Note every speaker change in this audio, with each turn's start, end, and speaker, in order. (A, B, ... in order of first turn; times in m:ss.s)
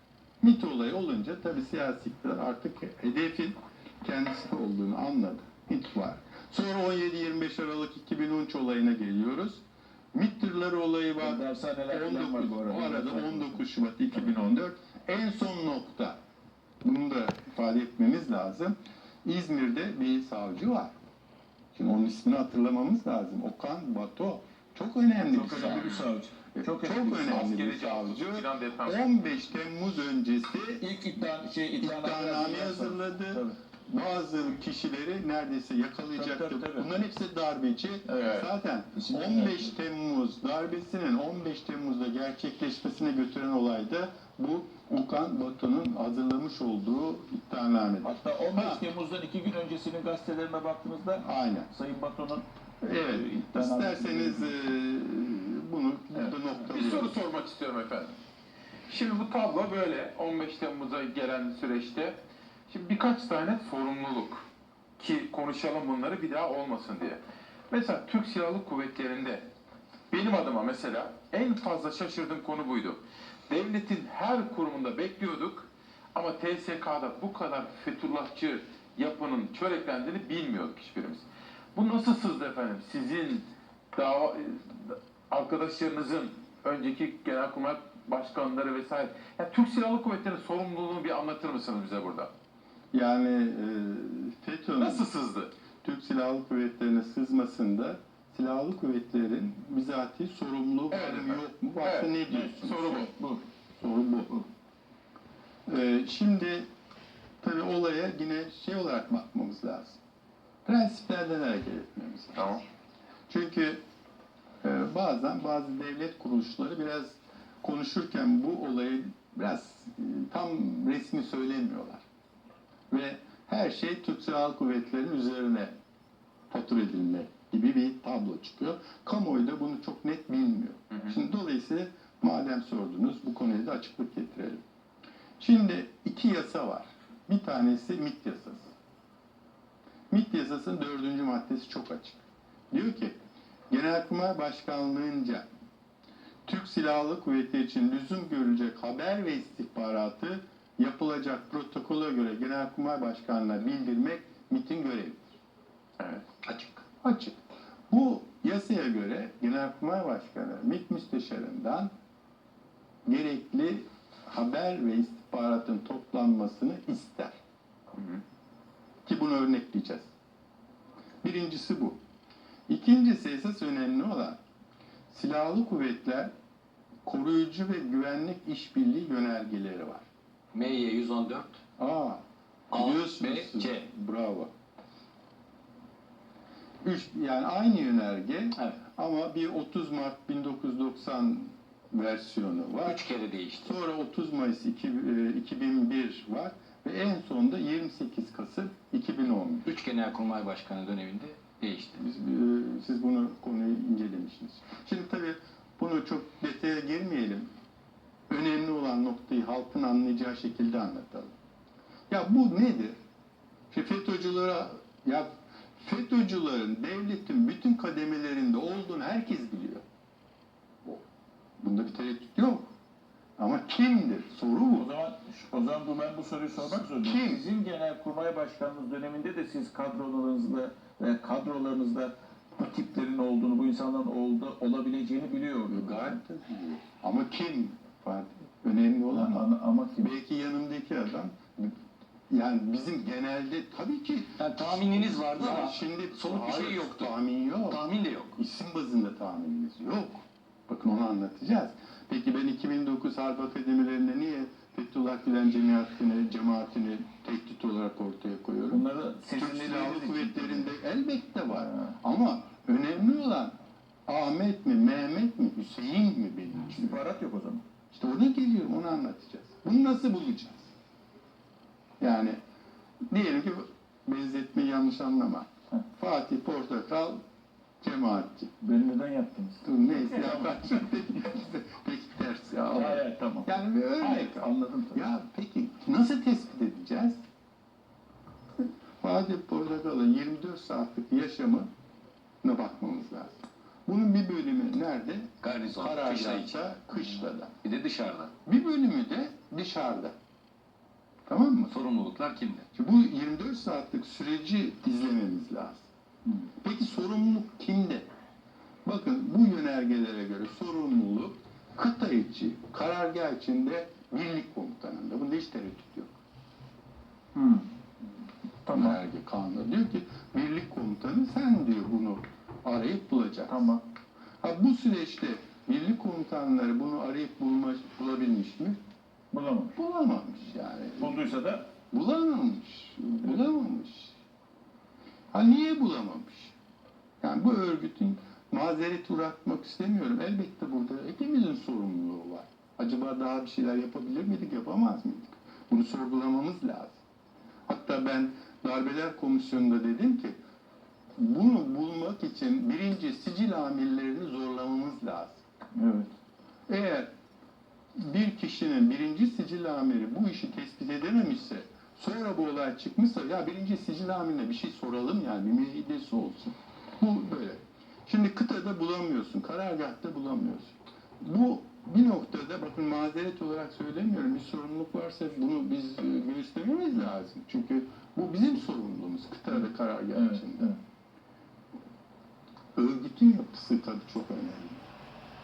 0:00.4-0:09.6 A
0:10.1-0:16.2 A
0:11.2-0:13.6 B
0:16.8-0:20.9 A
0:21.7-0:25.9 A
0:25.2-0:27.5 B
0:25.5-0:26.1 C
0:26.5-0:30.8 A
0:27.3-0:29.1 C
0:30.8-0:33.6 B
0:31.8-0:48.8 A
0:36.1-0:36.9 B
0:38.0-0:38.4 B
0:39.0-0:39.7 B
0:48.0-0:52.4 B
0:51.2-0:51.7 A
0:52.8-0:57.2 A
0:53.0-0:54.5 B
0:56.7-0:58.1 C
0:58.9-1:02.2 C
1:02.7-1:04.4 C
1:05.0-1:09.4 C
1:10.1-1:21.2 C
1:21.7-1:32.3 C
1:32.9-1:35.1 A
1:34.8-1:35.5 C
1:35.8-1:43.1 A
1:40.9-1:43.1 C
1:42.3-1:43.4 B
1:43.8-1:44.4 A
1:45.7-1:46.6 A
1:47.4-1:50.0 A
1:50.6-1:52.5 A
1:52.3-1:52.6 C
1:53.3-1:53.8 A
1:54.6-2:02.0 A
2:02.9-2:05.7 A
2:06.5-2:14.6 A
2:15.4-2:18.7 A
2:20.1-2:22.2 A
2:22.7-2:23.1 A
2:23.7-2:25.4 A
2:26.4-2:35.2 A
2:36.4-2:36.8 D
2:37.0-2:37.4 A
2:37.9-2:41.9 A
2:43.0-2:47.4 A
2:47.9-2:48.2 C
2:49.0-2:50.1 A
2:51.2-2:52.0 A
2:52.7-2:54.4 A
2:55.1-2:56.3 A
2:57.0-3:00.0 A
3:00.5-3:01.6 D
3:01.8-3:02.2 A
3:02.7-3:03.9 D
3:02.7-3:04.5 A
3:06.8-3:13.0 A
3:12.8-3:13.7 D
3:13.6-3:19.7 A
3:19.6-3:22.0 D
3:22.0-3:27.5 A
3:28.3-3:31.3 A
3:32.1-3:33.0 A
3:33.7-3:39.8 A
3:41.6-3:42.7 A
3:43.4-3:44.9 A
3:44.7-3:56.2 B
3:46.6-3:47.4 A
3:55.7-3:59.5 A
3:59.1-4:00.1 B
4:00.0-4:01.8 A
4:02.3-4:07.8 A
4:04.4-4:07.1 D
4:07.7-4:08.3 D
4:08.4-4:18.8 A
4:18.7-4:20.7 B
4:19.3-4:23.5 A
4:21.6-4:21.8 B
4:24.1-4:27.0 A
4:26.7-4:27.6 B
4:27.9-4:30.7 A
4:32.0-4:32.4 A
4:33.1-4:37.2 A
4:37.8-4:38.5 A
4:38.6-4:40.8 B
4:39.6-4:47.2 A
4:42.7-4:45.0 B
4:49.0-4:51.7 A
4:52.4-4:57.5 A
4:55.4-4:56.6 D
4:57.6-4:58.3 D
4:58.4-5:00.1 A
5:01.3-5:01.7 A
5:01.7-5:02.7 D
5:02.7-5:05.9 A
5:06.6-5:08.0 A
5:08.8-5:16.2 A
5:17.3-5:17.6 B
5:18.6-5:19.0 B
5:18.7-5:23.7 A
5:23.5-5:23.8 B
5:24.4-5:28.8 A
5:29.3-5:29.7 B
5:29.7-5:31.3 A
5:31.0-5:31.6 B
5:31.9-5:34.1 A
5:35.3-5:36.5 A
5:37.2-5:47.0 A
5:47.7-5:50.4 A
5:51.2-5:55.4 A
5:55.8-5:56.1 B
5:56.7-5:57.1 A
5:58.0-6:20.7 A
6:20.1-6:20.8 B
6:22.8-6:24.9 A